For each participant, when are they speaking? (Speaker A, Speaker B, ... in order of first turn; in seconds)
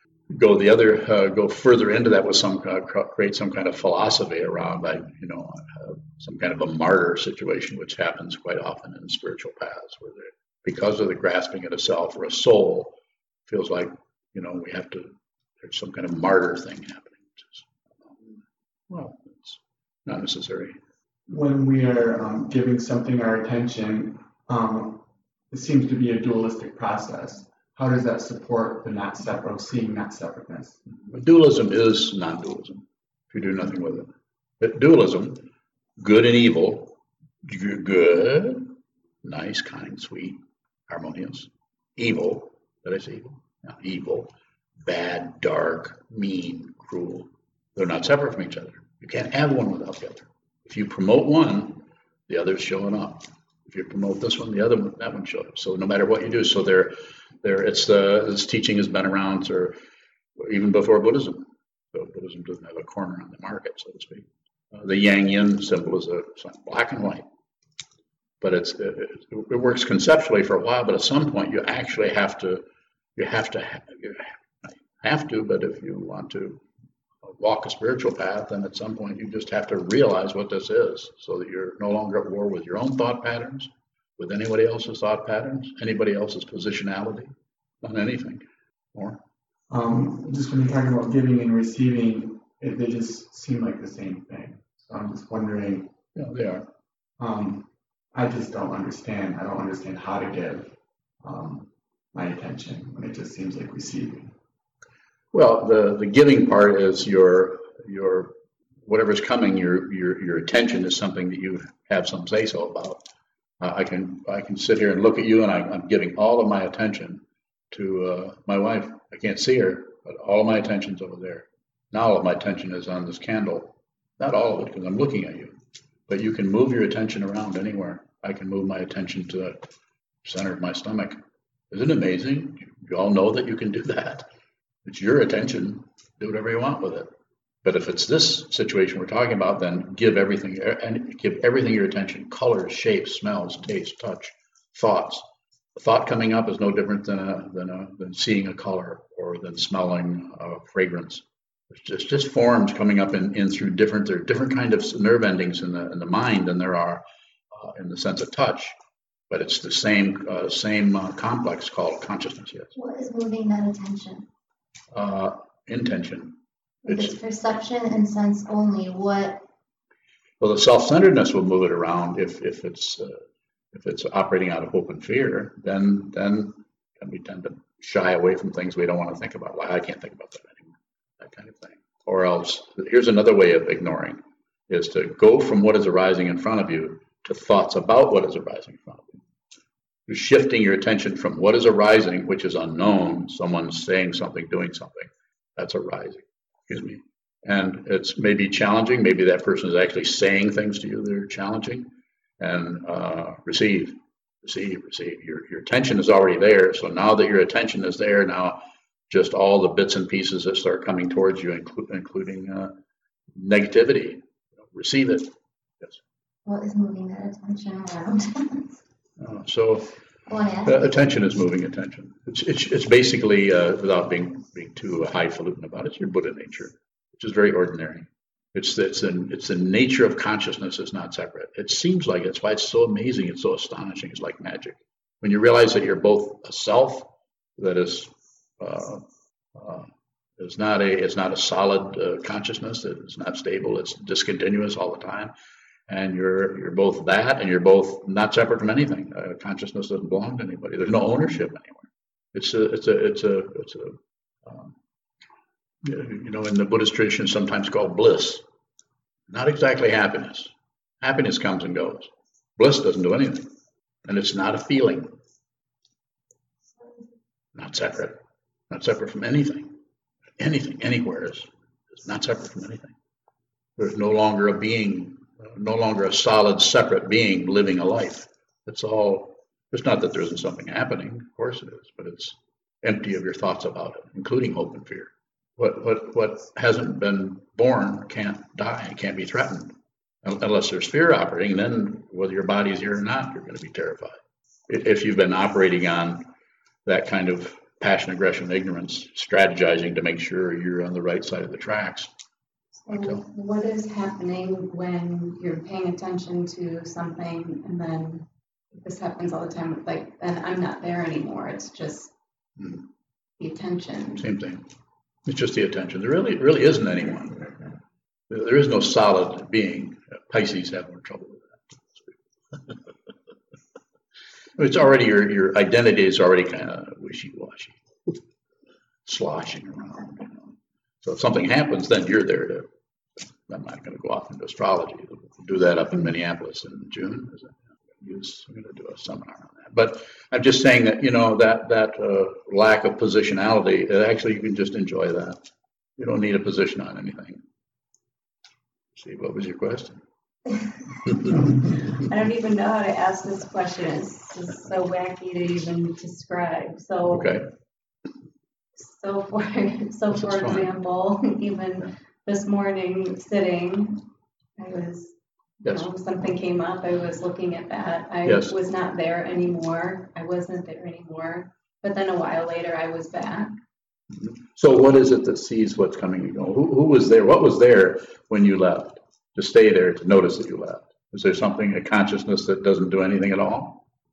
Speaker A: 0.3-12.9, 13.5-18.4, 18.9-20.8, 31.1-35.4, 36.0-38.7, 39.2-44.3, 44.8-59.8, 60.4-67.2, 68.4-72.6, 73.2-76.6, 77.2-89.2, 96.2-96.6, 105.3-108.3, 108.8-113.0, 113.6-125.5, 126.1-129.6, 130.2-131.2, 131.7-134.2, 134.8-137.1, 137.6-145.2, 145.8-158.7, 159.3-162.7, 164.9-166.3, 166.8-167.2, 170.4-173.2, 173.7-189.2, 190.1-201.9, 202.4-208.6, 209.1-212.7, 213.3-216.0, 219.2-219.9, 220.6-239.0, 239.5-245.3, 245.9-254.7, 255.8-258.4, 259.3-263.5, 264.1-265.1, 267.5-268.2, 268.7-269.7, 270.4-272.9, 273.8-289.7, 290.2-296.2, 296.9-302.1, 302.9-303.2, 314.2-314.6, 315.2-317.5, 318.3-322.1, 324.6-327.8, 329.0-330.5, 331.0-332.7, 333.5-345.4, 346.0-347.4, 348.9-350.0, 357.1-357.5, 360.1-360.7, 368.2-368.5, 374.1-383.8
Speaker B: 21.3-30.8, 89.7-95.9, 97.2-104.3
Speaker C: 162.7-164.3, 166.8-169.4, 216.4-218.7, 220.3-220.9
Speaker D: 302.9-312.1, 313.4-314.3, 352.1-357.4, 358.8-364.0, 364.6-373.5